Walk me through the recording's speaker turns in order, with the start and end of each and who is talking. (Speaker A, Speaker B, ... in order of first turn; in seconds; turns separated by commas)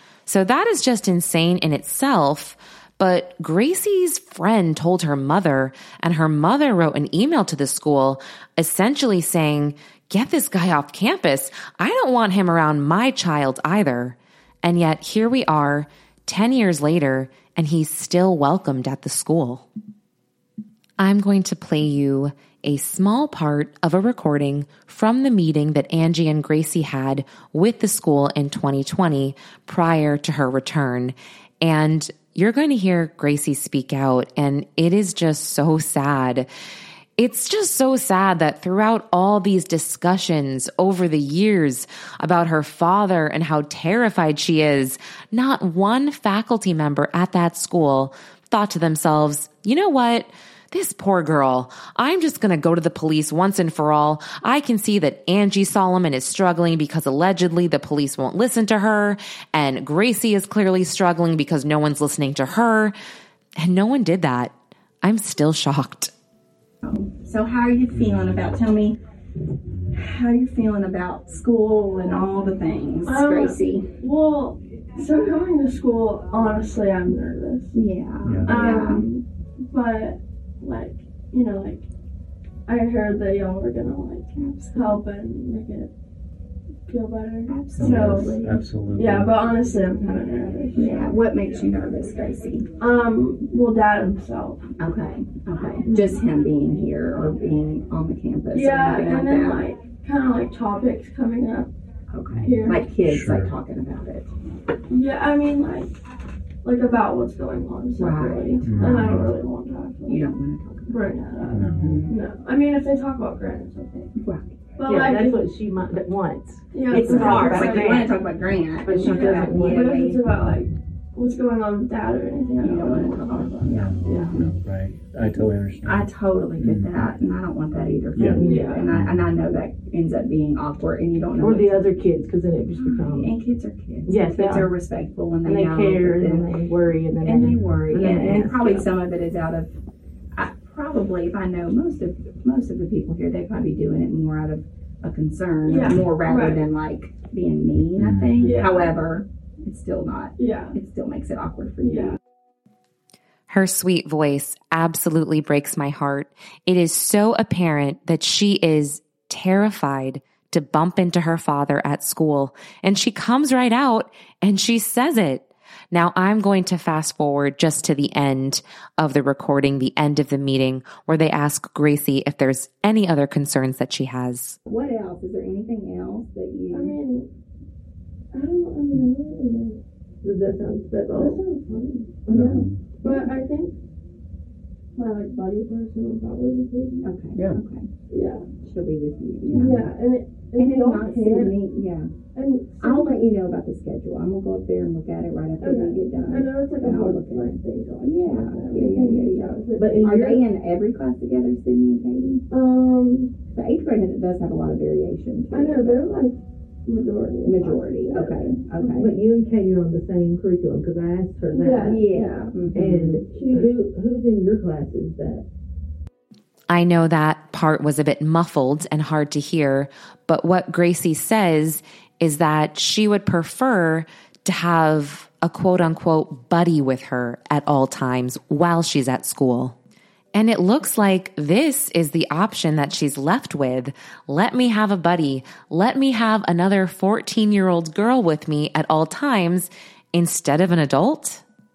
Speaker A: 0.3-19.7, Speaker A: 21.0-36.5, Speaker A: 37.2-62.9, Speaker A: 63.6-66.1, Speaker B: 66.8-69.0, Speaker C: 67.9-68.7, Speaker B: 69.9-73.9, Speaker D: 73.1-77.8, Speaker B: 77.7-79.1, Speaker C: 78.2-79.0, Speaker D: 78.5-81.8, Speaker D: 82.7-85.9, Speaker B: 84.3-85.0, Speaker D: 86.9-91.2, Speaker B: 87.5-88.4, Speaker C: 87.8-89.4, Speaker B: 90.8-92.7, Speaker D: 92.8-94.8, Speaker B: 94.8-99.7, Speaker D: 95.6-96.2, Speaker D: 98.5-101.7, Speaker B: 102.1-104.3, Speaker C: 102.3-103.5, Speaker D: 102.4-102.8, Speaker D: 104.9-105.9, Speaker D: 106.6-110.3, Speaker B: 108.0-109.3, Speaker C: 108.6-109.4, Speaker B: 110.1-112.1, Speaker D: 110.9-114.1, Speaker C: 111.4-112.1, Speaker B: 114.2-114.6, Speaker D: 114.8-115.4, Speaker E: 114.8-118.2, Speaker D: 116.7-118.1, Speaker B: 116.9-120.2, Speaker E: 118.8-119.9, Speaker D: 118.9-124.4, Speaker B: 122.6-124.5, Speaker C: 123.6-127.2, Speaker B: 125.3-131.9, Speaker C: 127.7-129.4, Speaker E: 128.3-128.8, Speaker D: 128.4-128.9, Speaker E: 131.4-133.3, Speaker B: 132.7-136.7, Speaker E: 134.1-134.7, Speaker E: 135.4-138.9, Speaker B: 137.2-139.8, Speaker C: 137.4-138.0, Speaker D: 137.9-138.8, Speaker B: 140.3-152.2, Speaker D: 145.7-146.6, Speaker C: 147.9-148.8, Speaker D: 148.4-148.9, Speaker D: 150.4-150.8, Speaker D: 151.8-152.2, Speaker A: 153.5-174.6, Speaker B: 174.7-177.0, Speaker D: 176.7-177.3, Speaker D: 178.3-179.8, Speaker E: 180.2-181.5, Speaker D: 181.1-183.8, Speaker E: 182.3-182.6, Speaker C: 182.3-182.8, Speaker D: 184.9-187.1, Speaker B: 187.0-187.9, Speaker D: 188.1-188.5, Speaker B: 188.6-189.8, Speaker C: 189.5-189.8, Speaker D: 189.5-191.5, Speaker B: 190.6-192.1, Speaker D: 192.3-193.3, Speaker B: 192.8-202.4, Speaker D: 195.6-200.2, Speaker E: 199.7-200.4, Speaker D: 202.5-203.3, Speaker B: 203.5-206.2, Speaker D: 205.5-208.7, Speaker B: 207.4-209.2, Speaker E: 208.8-212.1, Speaker D: 211.5-213.6, Speaker B: 211.8-213.1, Speaker E: 212.7-215.4, Speaker A: 216.7-229.8, Speaker A: 230.3-241.4